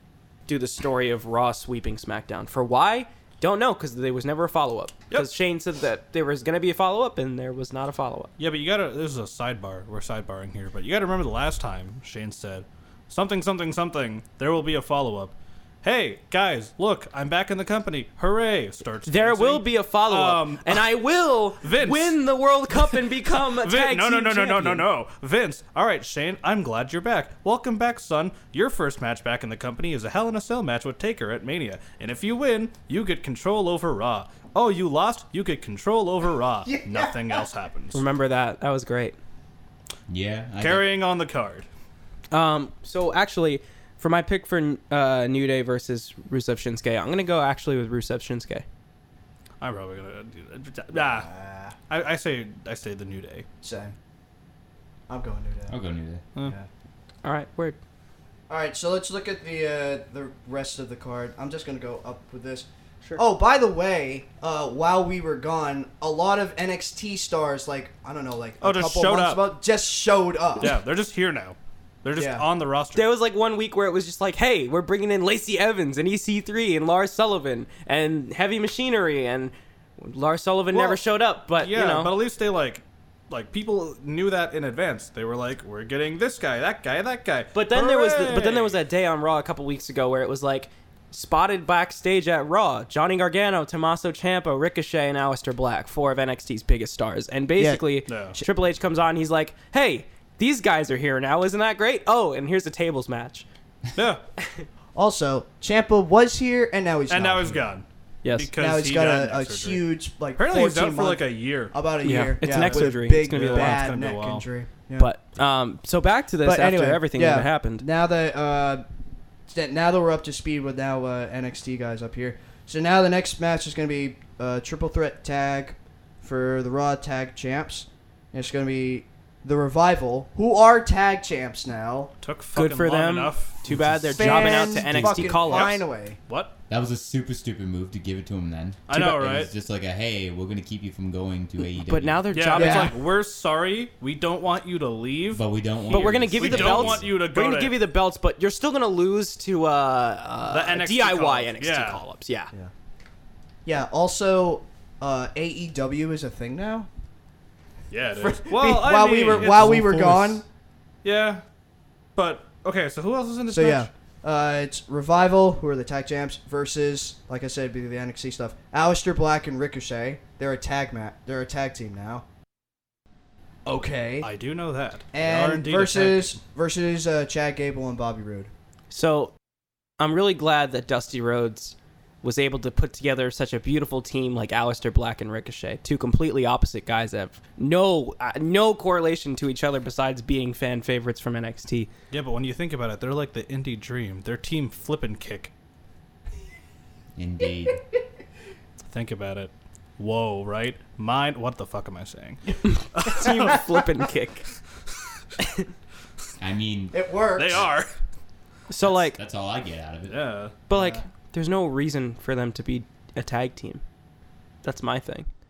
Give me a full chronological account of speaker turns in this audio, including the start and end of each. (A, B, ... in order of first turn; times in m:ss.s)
0:00.5-0:08.3 A
0:08.4-0:20.9 B
0:19.1-0:24.9 A
0:21.6-0:22.2 B
0:22.9-0:38.0 B
0:36.6-0:37.5 C
0:37.9-0:39.2 A
0:40.1-0:40.9 D
0:40.6-0:41.7 B
0:42.3-0:48.6 A
0:49.6-0:51.3 B
0:50.9-0:51.8 C
0:51.9-0:53.5 B
0:53.6-0:53.9 C
0:55.1-0:55.8 C
0:55.7-0:56.2 D
0:56.4-0:56.7 C
0:57.2-0:57.8 A
0:58.5-1:10.8 C
1:08.6-1:09.4 B
1:10.6-1:13.1 B
1:12.1-1:12.5 C
1:12.9-1:22.1 A
1:20.7-1:28.8 B
1:27.5-1:43.5 A
1:37.6-1:38.0 C
1:38.1-1:38.4 B
1:44.0-1:44.2 B
1:45.0-1:47.6 C
1:47.1-1:49.8 B
1:48.2-1:48.5 A
1:48.6-1:55.1 C
1:50.4-1:51.8 B
1:52.0-1:53.8 A
1:52.4-1:54.4 B
1:55.0-1:57.8 A
1:56.4-1:58.8 C
1:59.5-2:12.1 C
2:12.2-2:13.6 B
2:12.5-2:15.7 A
2:13.7-2:15.4 D
2:14.1-2:16.2 C
2:15.4-2:16.5 B
2:16.7-2:22.3 D
2:18.9-2:19.5 B
2:21.8-2:23.0 A
2:22.3-2:27.8 B
2:22.5-2:23.0 C
2:25.3-2:27.1 D
2:25.9-2:32.5 A
2:30.5-2:32.0 B
2:33.6-2:36.9 C
2:37.9-2:39.8 B
2:38.2-2:40.4 C
2:39.3-2:40.4 D
2:41.0-2:41.4 B
2:42.2-2:43.9 B
2:43.5-2:52.2 C
2:53.6-2:54.3 C
2:54.2-2:56.4 B
2:55.1-2:58.5 C
2:58.9-2:59.3 A
3:00.0-3:11.9 A
3:12.1-3:15.5 B
3:17.2-3:17.8 D
3:18.9-3:23.8 B
3:22.6-3:24.5 A
3:25.4-3:25.7 A
3:26.4-3:27.0 D
3:26.9-3:27.7 C
3:27.4-3:27.9 B
3:28.7-3:29.2 A
3:28.8-3:30.2 D
3:30.1-3:30.6 B
3:30.7-3:33.8 A
3:30.7-3:31.0 C
3:34.6-3:35.3 A